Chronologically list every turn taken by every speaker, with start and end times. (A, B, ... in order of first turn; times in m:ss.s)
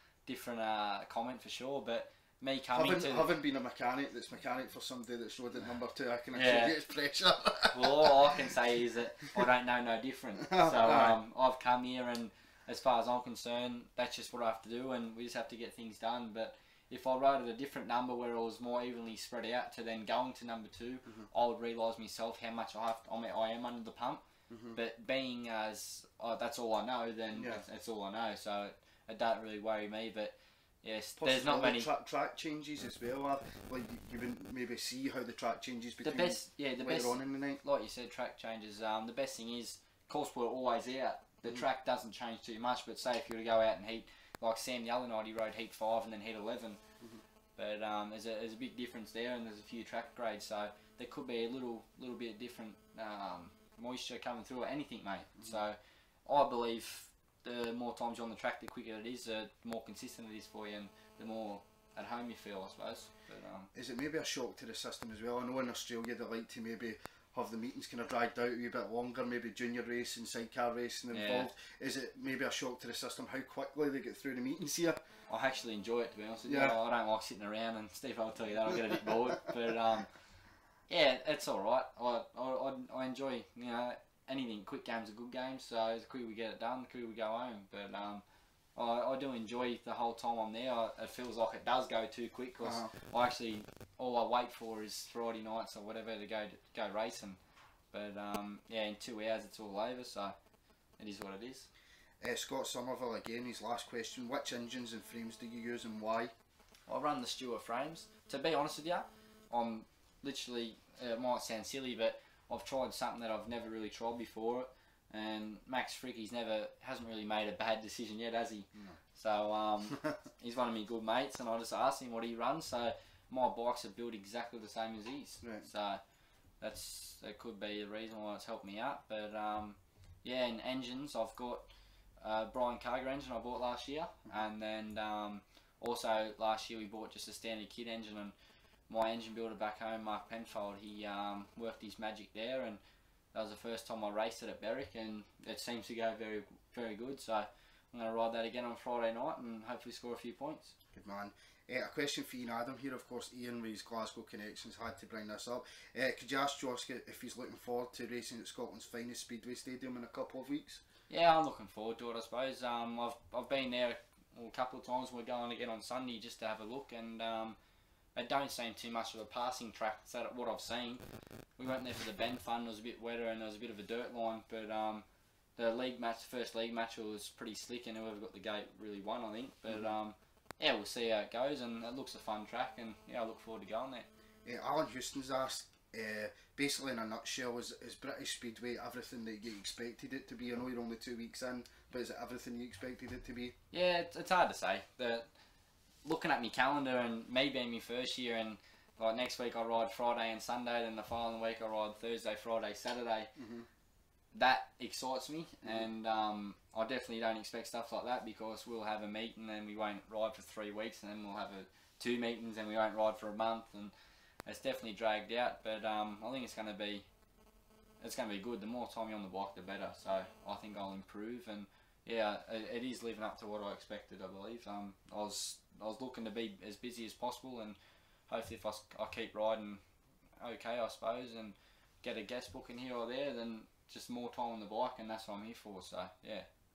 0:00.2-0:03.3 A
0:02.7-0:08.2 B
0:06.3-0:06.7 A
0:07.7-0:24.2 A
0:10.4-0:11.2 B
0:24.5-0:24.8 B
0:24.7-0:31.9 A
0:27.3-0:27.6 B
0:31.2-0:37.6 B
0:36.0-0:46.8 A
0:47.6-1:03.7 A
1:03.7-1:15.0 B
1:11.1-1:11.5 A
1:15.3-1:20.1 A
1:16.5-1:16.8 B
1:20.9-1:28.2 A
1:28.8-1:37.4 A
1:32.6-1:32.9 B
1:37.9-1:40.3 A
1:41.0-1:41.7 A
1:42.2-1:46.3 B
1:46.9-2:06.0 A
2:06.6-2:11.7 A
2:12.2-2:18.3 A
2:18.9-2:22.8 A
2:23.3-2:30.7 A
2:30.9-2:40.8 B
2:41.1-2:47.6 A
2:48.1-2:51.0 A
2:51.6-2:55.0 A
2:55.6-3:04.1 A
3:04.4-3:13.6 B
3:13.7-3:15.3 A
3:16.0-3:23.3 A
3:23.4-3:23.7 B
3:24.3-3:33.9 A
3:34.4-3:37.0 A
3:38.0-3:47.8 A
3:48.3-3:49.8 A
3:50.4-3:56.5 A